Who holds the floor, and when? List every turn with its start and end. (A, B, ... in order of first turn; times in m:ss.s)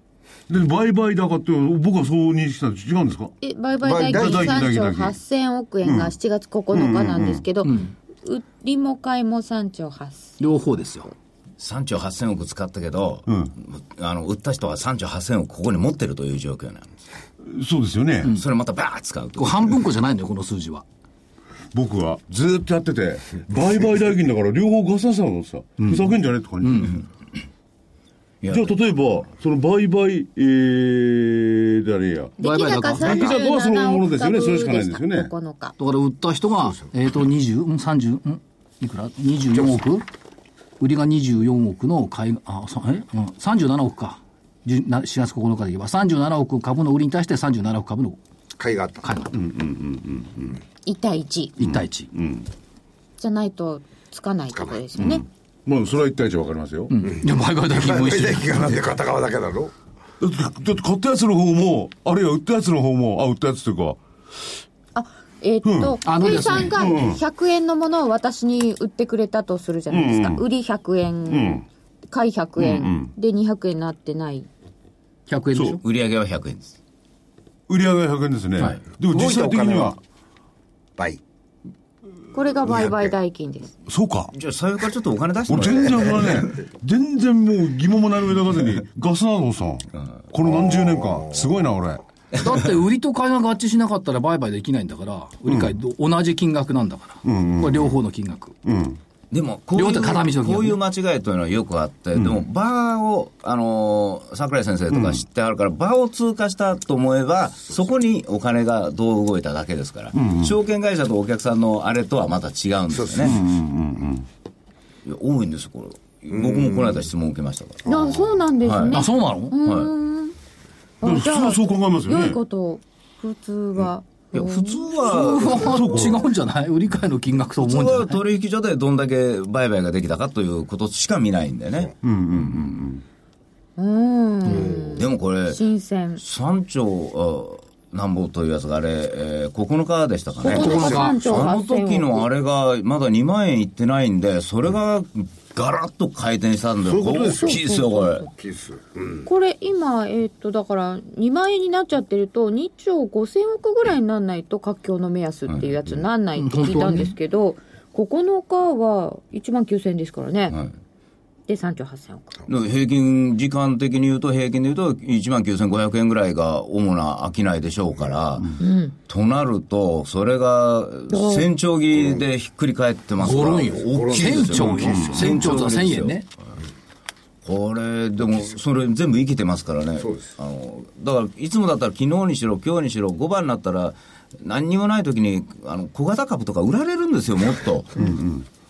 0:00.5-0:03.4 A
0:03.4-0:10.5 B
0:03.8-0:04.7 C
0:04.0-0:05.2 A
0:05.8-0:06.1 A
0:06.7-0:07.5 A
0:07.6-0:07.9 D
0:10.4-0:11.1 D
0:11.6-0:16.9 E
0:13.3-0:13.5 A
0:17.4-0:18.4 A
0:18.3-0:19.8 E
0:19.4-0:20.8 D
0:21.7-0:27.0 A
0:25.8-0:26.9 D
0:28.4-0:29.0 E
0:28.5-0:32.4 A
0:32.4-0:35.8 B
0:32.4-0:33.4 D
0:33.0-0:35.3 A
0:35.8-0:40.1 D
0:40.8-0:48.2 D
0:48.6-0:49.1 C
0:49.0-0:49.3 D
0:49.3-0:50.6 A
0:50.8-0:51.6 B
0:51.6-0:52.1 D
0:51.6-0:52.5 A
0:53.2-0:55.3 B
0:54.5-0:55.1 C
0:55.0-0:57.0 A
0:56.9-0:58.8 D
0:57.1-0:59.7 C
1:00.2-1:04.0 A
1:05.0-1:14.5 B
1:05.6-1:07.2 A
1:06.0-1:06.8 D
1:09.9-1:10.4 A
1:11.3-1:11.6 A
1:12.6-1:13.1 A
1:15.3-1:15.8 D
1:15.8-1:16.8 E
1:17.7-1:20.0 A
1:18.6-1:19.0 E
1:19.1-1:20.0 C
1:21.0-1:21.2 C
1:22.3-1:23.7 B
1:22.6-1:23.1 C
1:23.9-1:24.3 A
1:24.3-1:26.4 E
1:25.5-1:32.0 A
1:30.4-1:31.7 C
1:32.4-1:38.6 D
1:37.2-1:37.9 A
1:38.6-1:39.0 A
1:39.3-1:53.4 E
1:39.7-1:40.8 D
1:42.2-1:42.4 A
1:44.9-1:45.2 A
1:50.2-1:50.5 A
1:52.9-1:53.4 C
1:53.2-1:54.3 A
1:55.0-1:58.0 E
1:56.3-1:57.0 C
1:57.8-2:00.4 B
1:57.9-1:58.2 C
1:58.6-1:59.0 E
1:58.9-1:59.6 D
1:59.6-1:59.9 E
2:01.0-2:06.1 B
2:01.0-2:02.4 A
2:04.3-2:05.8 E
2:05.1-2:08.2 D
2:05.6-2:06.3 A
2:07.6-2:11.9 E
2:12.0-2:13.0 A
2:13.8-2:16.2 B
2:14.5-2:15.0 C
2:14.9-2:15.6 E
2:16.2-2:28.2 E
2:20.4-2:22.3 B
2:20.5-2:21.3 D
2:20.5-2:21.2 C
2:26.8-2:29.3 C
2:27.4-2:28.0 B
2:29.2-2:40.6 B
2:35.5-2:35.9 E
2:36.4-2:37.1 D
2:41.5-2:42.4 B
2:42.5-2:56.2 E
2:48.6-2:49.0 B
2:51.1-2:51.5 B
2:51.9-2:52.2 C
2:53.2-2:56.3 D
2:53.3-2:55.3 C
2:54.6-2:55.5 A
2:57.4-3:08.2 E
3:00.0-3:00.3 C
3:08.0-3:08.4 A